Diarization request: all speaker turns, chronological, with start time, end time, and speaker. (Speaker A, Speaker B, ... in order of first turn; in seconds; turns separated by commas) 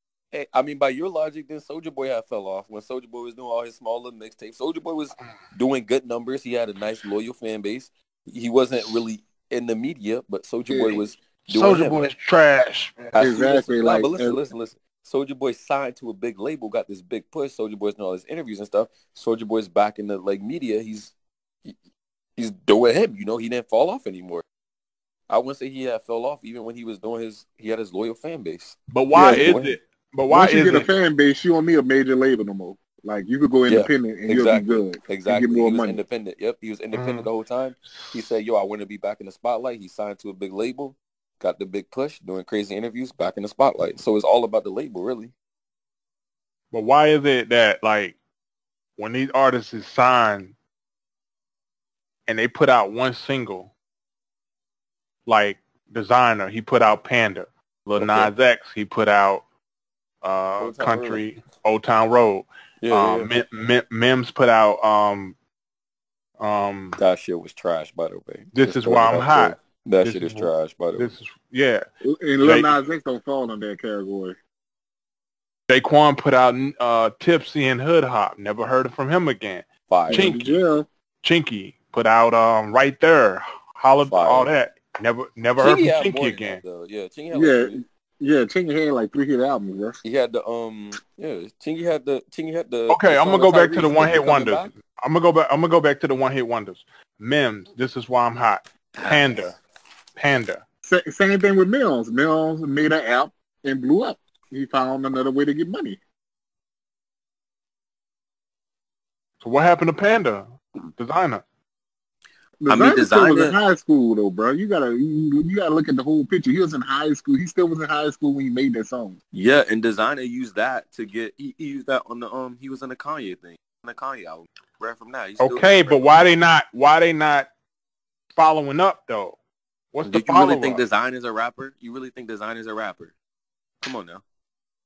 Speaker A: 0.3-12.0, Speaker B: 10.7-11.0, Speaker C: 11.5-12.9, Speaker A: 13.1-21.1, Speaker B: 13.2-14.4, Speaker A: 22.4-24.4, Speaker A: 25.3-29.8, Speaker C: 28.9-30.9, Speaker B: 29.1-29.5, Speaker B: 30.3-36.0, Speaker A: 33.7-45.3, Speaker C: 36.9-37.3, Speaker C: 37.9-38.3, Speaker C: 46.7-48.2, Speaker C: 49.0-50.5, Speaker C: 52.3-53.7, Speaker C: 55.3-59.4, Speaker A: 58.0-58.3, Speaker C: 60.2-65.3, Speaker A: 60.6-61.2, Speaker A: 62.8-63.3, Speaker C: 66.4-67.0, Speaker A: 67.0-71.1, Speaker C: 68.5-71.8, Speaker B: 72.0-74.4, Speaker C: 72.4-72.8, Speaker C: 75.7-80.6, Speaker A: 79.9-80.4, Speaker B: 80.1-80.9, Speaker C: 81.2-86.6, Speaker A: 84.1-84.5, Speaker A: 85.6-87.8, Speaker B: 87.3-90.0, Speaker A: 90.0-94.7, Speaker C: 92.9-99.6, Speaker A: 99.0-99.5, Speaker C: 100.2-100.6, Speaker B: 100.8-106.0, Speaker C: 109.4-111.4, Speaker B: 112.6-119.2, Speaker A: 112.7-113.6, Speaker A: 119.3-126.2, Speaker C: 125.4-127.5, Speaker C: 128.3-129.4, Speaker C: 129.9-130.8, Speaker A: 130.0-133.1, Speaker A: 133.8-134.2